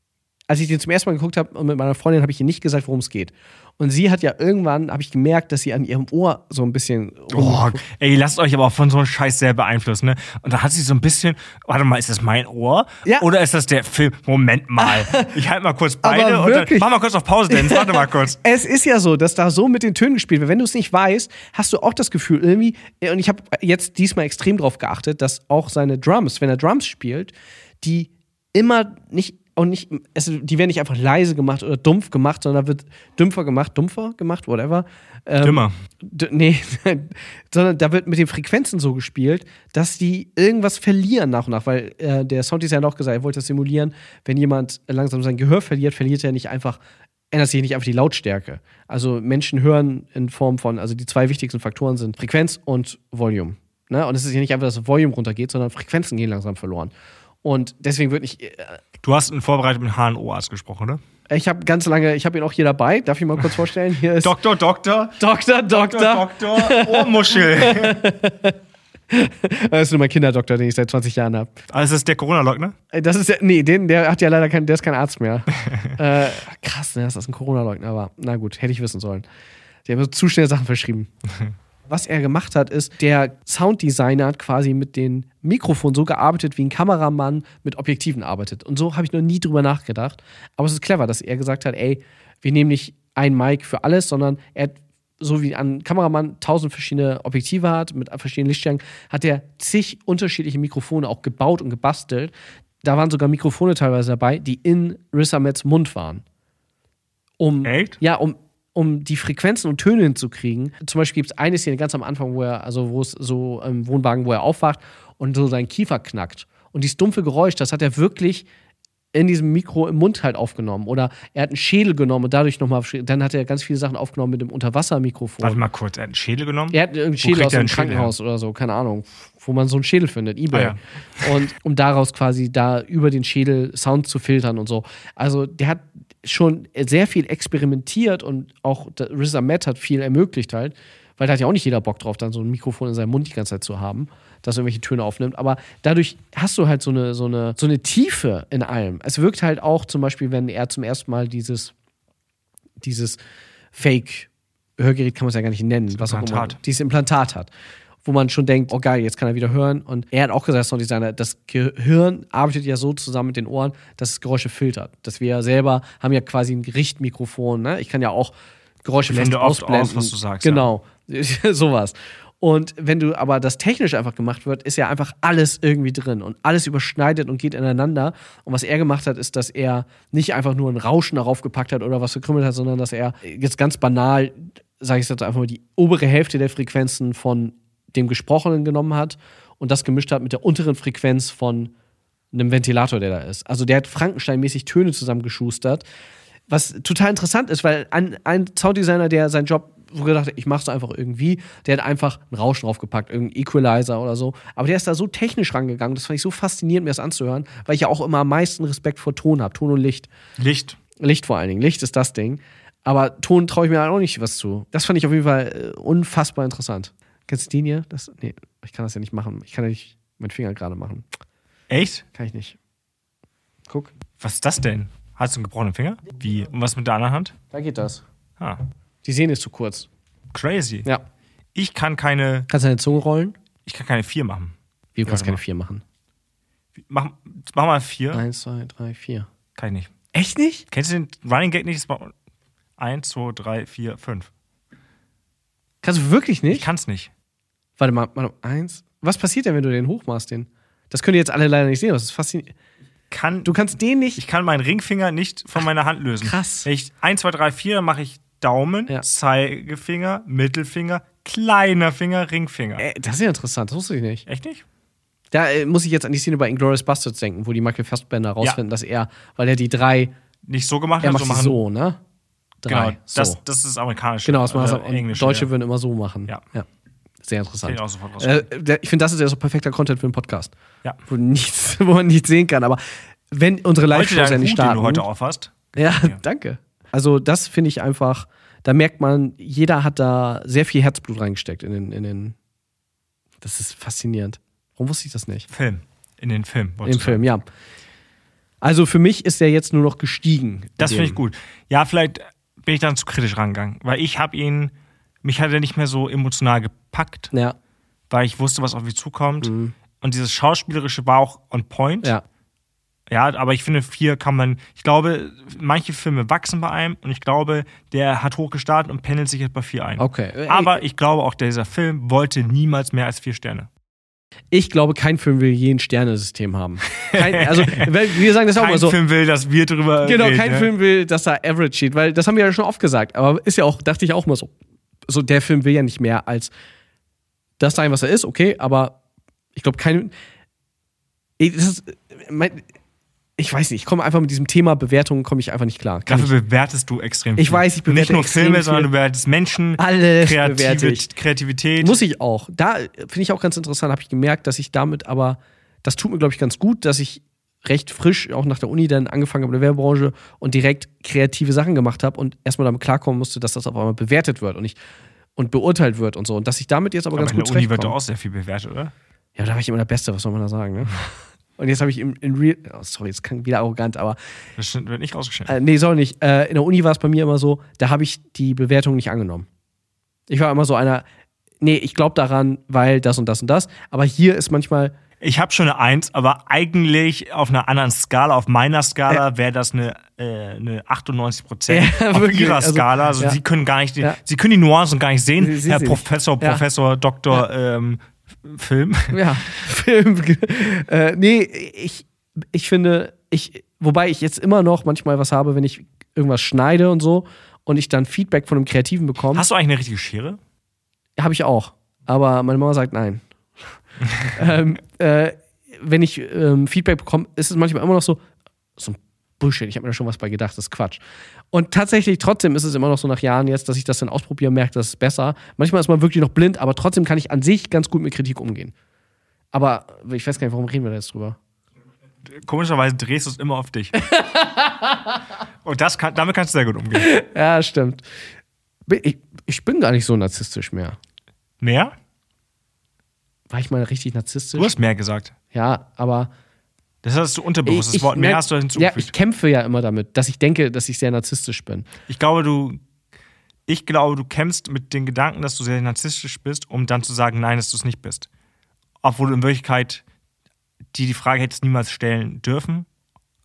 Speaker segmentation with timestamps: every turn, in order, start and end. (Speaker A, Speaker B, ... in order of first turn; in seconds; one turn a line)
Speaker A: 0.5-7.8
Speaker B: 7.3-18.4
Speaker A: 14.8-15.3
Speaker A: 16.0-16.9
Speaker A: 17.5-46.8
Speaker B: 35.4-35.7
Speaker A: 47.3-56.9
Speaker A: 57.4-58.8
Speaker B: 59.0-61.0
Speaker A: 61.3-64.3
Speaker B: 64.2-68.0
Speaker A: 65.2-68.6
Speaker A: 69.1-71.6
Speaker B: 71.7-72.8
Speaker A: 72.9-79.2
Speaker A: 79.8-81.1
Speaker A: 81.9-102.3
Speaker A: 102.8-106.2
Speaker A: 107.4-118.5
Speaker B: 107.6-108.0
Speaker A: 119.1-125.6
Speaker B: 125.4-128.1
Speaker A: 126.7-151.7
Speaker B: 130.5-131.3
Speaker A: 152.8-153.2
Speaker A: 153.7-157.5
Speaker B: 155.9-156.6
Speaker A: 158.0-191.7
Speaker B: 169.1-170.7
Speaker A: 192.3-195.8
Speaker A: 196.5-210.1
Speaker B: 210.4-210.8
Speaker A: 211.0-221.1
Speaker B: 221.7-222.0
Speaker A: 222.1-222.6
Speaker B: 224.2-227.3
Speaker A: 227.5-228.0
Speaker A: 229.0-229.9
Speaker B: 230.3-230.9
Speaker B: 231.5-232.5
Speaker A: 232.5-233.3
Speaker B: 233.6-235.4
Speaker A: 234.9-235.8
Speaker B: 236.8-238.2
Speaker A: 238.1-239.3
Speaker B: 239.6-239.9
Speaker A: 240.1-240.7
Speaker B: 240.7-242.1
Speaker B: 242.8-244.3
Speaker A: 245.8-246.7
Speaker B: 246.5-247.1
Speaker A: 247.8-252.5
Speaker B: 253.1-253.5
Speaker A: 253.4-254.2
Speaker B: 254.2-262.8
Speaker A: 256.2-256.7
Speaker A: 262.8-264.2
Speaker B: 264.2-264.6
Speaker A: 265.3-270.1
Speaker B: 270.4-271.6
Speaker A: 271.0-272.0
Speaker A: 272.6-273.4
Speaker B: 272.7-275.5
Speaker A: 274.2-276.6
Speaker A: 277.2-280.5
Speaker B: 277.6-278.5
Speaker A: 281.1-285.0
Speaker B: 283.9-286.2
Speaker A: 285.8-292.4
Speaker A: 293.4-295.5
Speaker B: 295.5-297.2
Speaker A: 296.8-297.4
Speaker A: 298.6-301.2
Speaker B: 300.8-307.3
Speaker B: 308.1-312.1
Speaker A: 309.4-309.7
Speaker B: 313.1-323.7
Speaker A: 320.0-320.8
Speaker A: 324.5-329.0
Speaker B: 326.9-330.7
Speaker A: 330.0-334.5
Speaker A: 335.1-336.5
Speaker A: 337.6-339.0
Speaker A: 339.5-340.1
Speaker A: 341.4-342.6
Speaker A: 343.4-346.3
Speaker B: 346.1-352.0
Speaker A: 347.4-348.9
Speaker A: 349.8-351.1
Speaker A: 351.8-364.8
Speaker A: 365.4-367.9
Speaker B: 367.1-368.9
Speaker A: 369.4-374.2
Speaker B: 374.6-375.5
Speaker A: 375.5-379.5
Speaker A: 380.3-381.0
Speaker A: 381.6-384.9
Speaker B: 385.2-399.2
Speaker A: 391.7-393.4
Speaker A: 395.4-396.6
Speaker A: 399.1-409.4
Speaker B: 409.3-410.4
Speaker A: 411.2-413.2
Speaker A: 414.2-418.2
Speaker A: 418.8-421.0
Speaker A: 421.5-428.7
Speaker A: 429.5-431.4
Speaker B: 432.2-434.0
Speaker A: 434.0-435.1
Speaker B: 435.6-437.1
Speaker A: 436.9-438.0
Speaker A: 438.9-441.0
Speaker B: 441.6-441.9
Speaker A: 443.5-444.7
Speaker B: 444.5-445.3
Speaker A: 445.5-446.3
Speaker B: 447.0-449.1
Speaker A: 447.6-451.9
Speaker B: 452.1-452.8
Speaker B: 453.7-458.3
Speaker B: 459.0-460.0
Speaker B: 460.9-462.9